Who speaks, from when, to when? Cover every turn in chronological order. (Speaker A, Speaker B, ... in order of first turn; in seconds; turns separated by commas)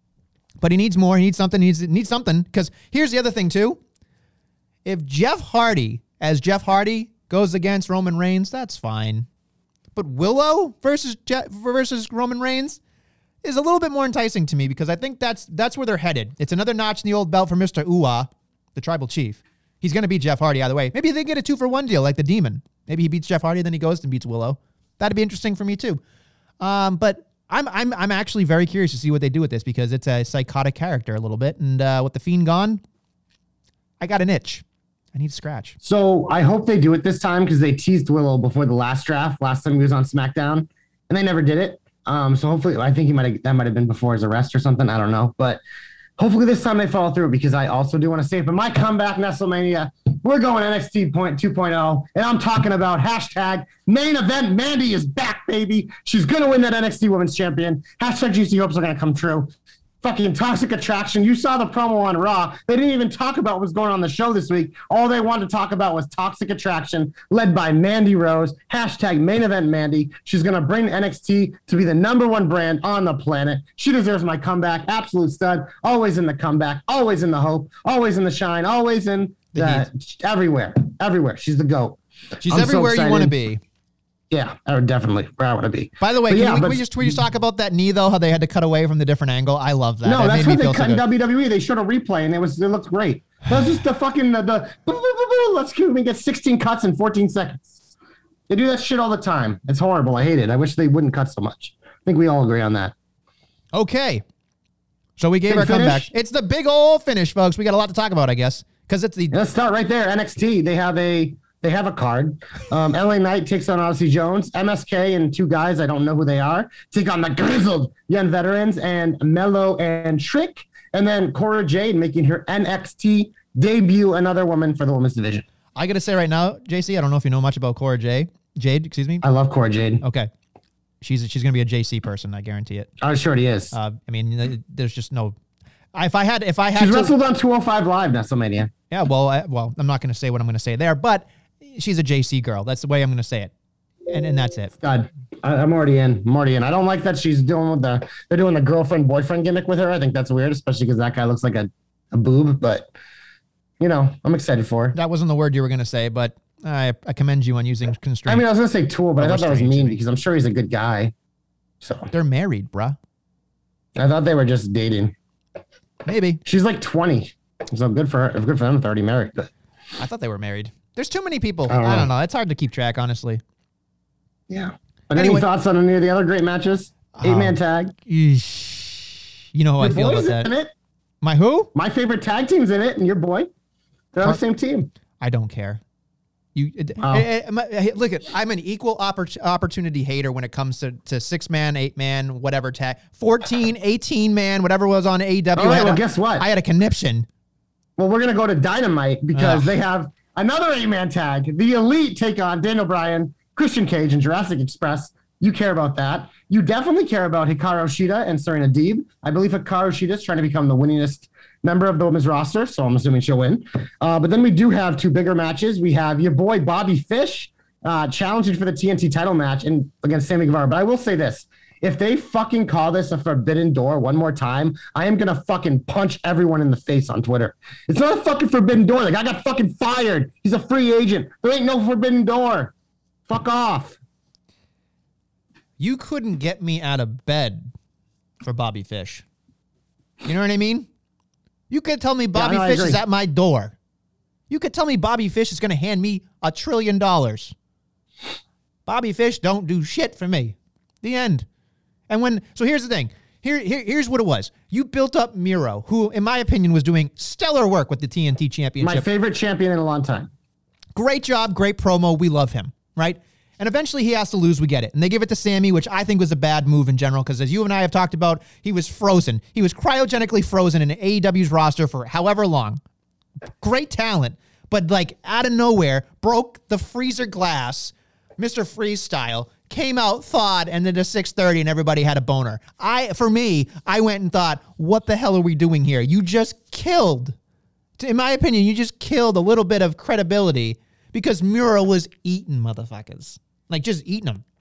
Speaker A: 0.6-3.8, Speaker A: 4.8-9.3, Speaker A: 9.9-12.8, Speaker A: 13.4-26.0, Speaker A: 26.6-32.8, Speaker A: 34.0-35.8, Speaker B: 35.8-45.6, Speaker B: 46.2-59.5, Speaker B: 60.0-83.3, Speaker A: 79.5-79.9, Speaker A: 82.4-83.6, Speaker B: 84.3-87.1, Speaker A: 86.0-91.0, Speaker B: 90.0-97.8, Speaker B: 98.5-102.9, Speaker A: 103.7-104.2, Speaker A: 105.2-109.3, Speaker B: 105.5-106.1, Speaker B: 109.3-125.4, Speaker A: 125.8-129.2, Speaker B: 129.2-130.0, Speaker A: 130.0-130.3, Speaker A: 131.0-132.9, Speaker B: 133.0-133.7, Speaker A: 133.7-135.3, Speaker A: 135.9-137.1, Speaker B: 136.8-138.7, Speaker A: 138.9-143.5, Speaker A: 144.1-144.7, Speaker B: 144.8-152.9, Speaker B: 153.8-154.9, Speaker A: 154.9-158.4, Speaker B: 158.3-161.1, Speaker A: 159.2-160.0, Speaker B: 161.8-162.1, Speaker A: 162.1-163.0, Speaker B: 163.9-165.1, Speaker A: 166.0-166.4, Speaker B: 166.4-169.5, Speaker A: 170.0-173.4, Speaker B: 171.7-172.1, Speaker B: 174.5-177.9, Speaker A: 175.1-175.5, Speaker A: 177.2-180.5, Speaker B: 179.8-180.7, Speaker A: 181.2-181.7, Speaker B: 181.7-183.5, Speaker B: 184.1-184.9, Speaker A: 185.2-185.8, Speaker A: 186.5-197.2, Speaker B: 187.0-187.3, Speaker B: 195.6-196.4, Speaker B: 198.0-232.7, Speaker A: 199.3-199.7, Speaker B: 233.3-234.0, Speaker A: 235.8-237.7, Speaker A: 238.4-239.2, Speaker A: 240.2-240.9, Speaker A: 241.7-243.7, Speaker B: 242.3-243.0, Speaker A: 244.5-247.5, Speaker A: 248.8-251.4, Speaker A: 252.1-259.0, Speaker B: 258.8-260.3, Speaker A: 260.9-272.8, Speaker A: 273.4-287.3, Speaker A: 288.0-294.4